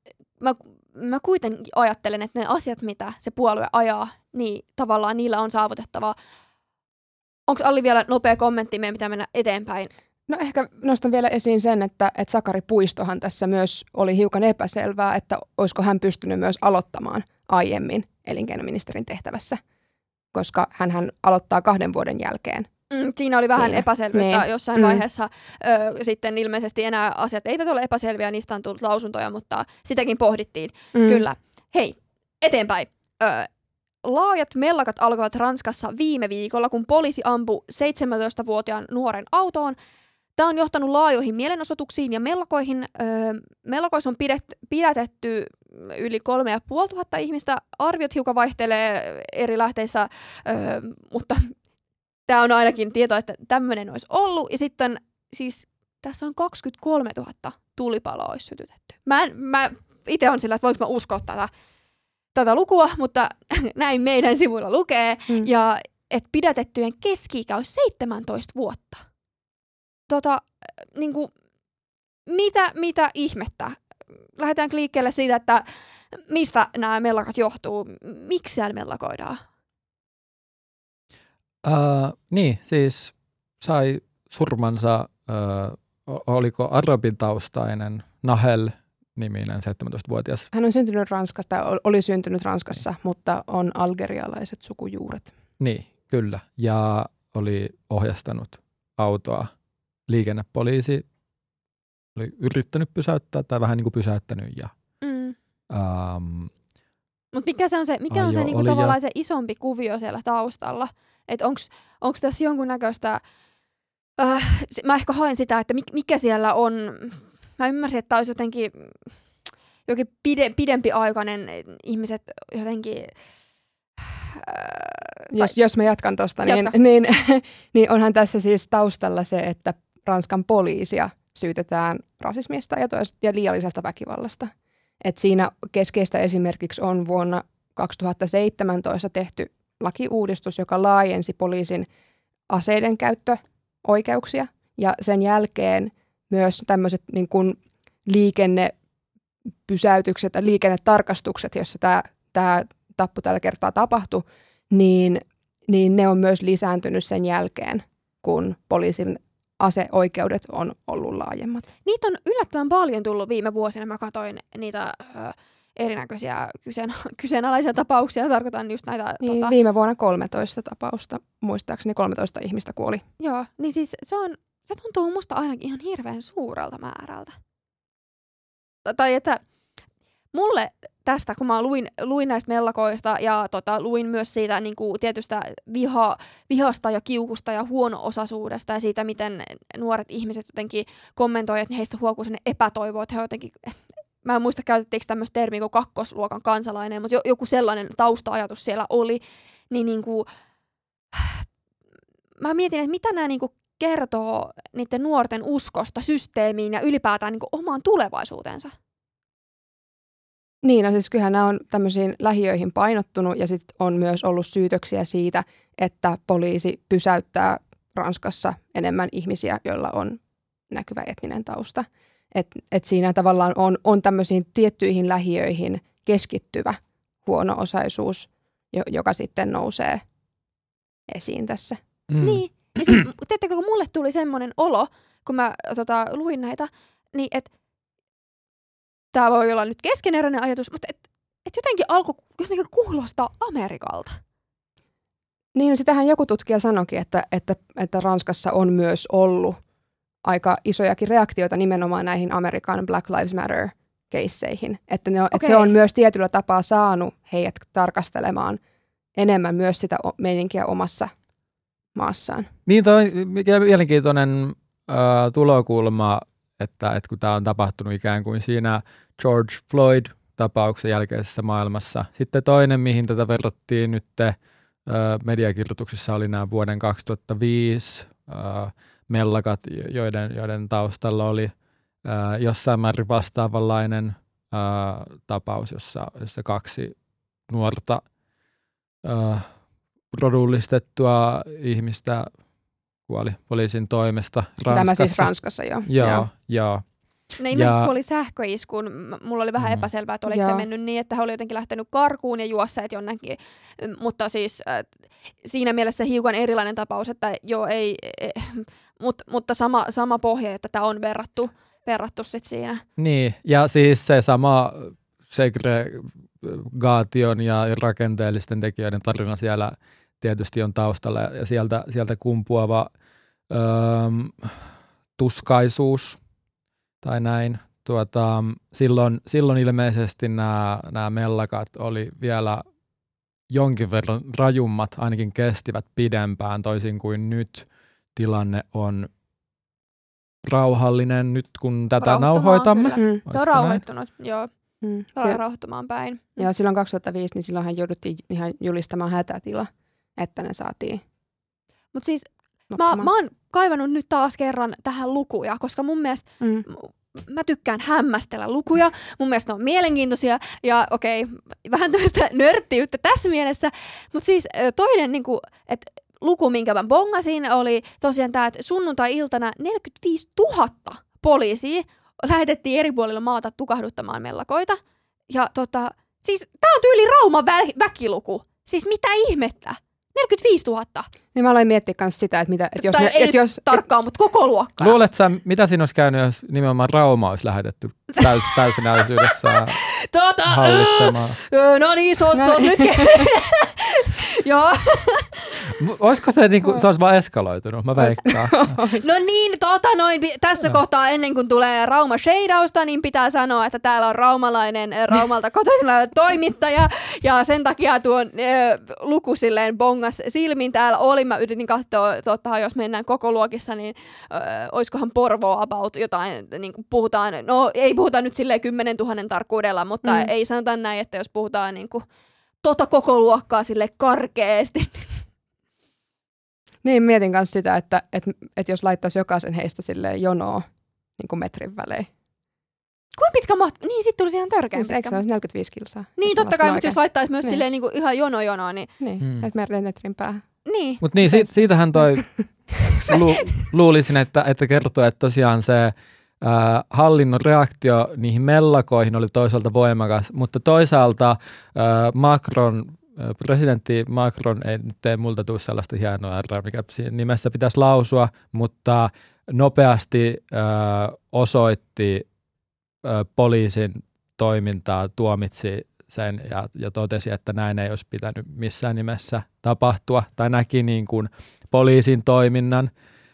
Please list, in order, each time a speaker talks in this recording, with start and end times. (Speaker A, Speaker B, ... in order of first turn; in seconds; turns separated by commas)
Speaker A: 0.4-6.2, Speaker A: 7.5-9.9, Speaker B: 10.3-19.6, Speaker B: 20.3-22.7, Speaker A: 22.9-33.5, Speaker B: 23.5-25.0, Speaker B: 30.9-31.2, Speaker A: 34.0-39.8, Speaker A: 40.4-51.5, Speaker A: 52.3-61.5, Speaker A: 62.3-69.0, Speaker A: 70.1-71.3, Speaker A: 72.3-73.8, Speaker A: 74.4-79.4, Speaker C: 81.6-90.5, Speaker B: 90.5-95.3, Speaker C: 95.6-99.5, Speaker C: 100.1-101.0, Speaker C: 102.2-104.7, Speaker A: 105.0-105.4, Speaker C: 105.7-106.5, Speaker A: 107.3-113.2, Speaker C: 108.1-109.0, Speaker A: 114.2-118.9, Speaker A: 119.9-123.1, Speaker A: 124.0-125.5, Speaker B: 125.3-134.5, Speaker A: 126.5-126.7, Speaker B: 135.0-141.9, Speaker B: 142.5-148.8, Speaker B: 149.7-161.7, Speaker A: 161.8-169.6, Speaker B: 169.2-173.0, Speaker A: 173.2-177.3, Speaker A: 178.8-179.4, Speaker A: 180.3-200.3, Speaker A: 201.1-201.4, Speaker A: 202.4-208.7, Speaker B: 210.6-230.0, Speaker B: 231.1-231.8, Speaker C: 232.1-233.0, Speaker A: 232.2-237.5, Speaker A: 239.1-244.2, Speaker B: 245.6-249.6, Speaker B: 250.2-258.6, Speaker A: 255.3-255.7, Speaker B: 259.2-261.1, Speaker B: 261.9-262.5, Speaker C: 262.7-274.4, Speaker C: 274.9-281.5, Speaker C: 282.0-286.9, Speaker C: 287.5-288.0, Speaker C: 289.0-289.5, Speaker C: 290.1-292.3, Speaker C: 293.1-296.8, Speaker B: 294.7-296.2, Speaker A: 297.4-312.8, Speaker C: 297.5-297.9, Speaker C: 299.6-299.9, Speaker B: 300.3-300.7, Speaker C: 313.0-322.9, Speaker C: 323.5-324.6, Speaker C: 325.2-326.2, Speaker C: 327.0-332.6, Speaker C: 333.5-339.1, Speaker C: 340.4-343.8, Speaker A: 342.0-344.5, Speaker B: 343.0-343.2, Speaker B: 344.8-345.4, Speaker A: 345.1-346.5, Speaker B: 346.4-351.0, Speaker A: 351.9-374.8, Speaker B: 352.7-353.1, Speaker B: 356.4-356.7, Speaker A: 375.3-381.1, Speaker B: 381.3-383.8, Speaker A: 382.8-385.0, Speaker C: 384.8-389.8, Speaker A: 389.3-395.6, Speaker C: 390.5-391.4, Speaker B: 392.4-393.3, Speaker C: 395.7-398.6, Speaker B: 398.0-399.1, Speaker A: 399.0-422.1, Speaker B: 420.0-420.3, Speaker A: 422.6-425.2, Speaker B: 426.8-430.6, Speaker B: 431.2-432.1, Speaker A: 433.2-435.2, Speaker B: 434.8-437.6, Speaker A: 436.2-438.9, Speaker B: 439.0-440.4, Speaker C: 439.2-439.5, Speaker A: 440.7-441.0, Speaker C: 441.0-442.3, Speaker B: 441.2-442.2, Speaker C: 443.0-462.2, Speaker C: 463.0-472.9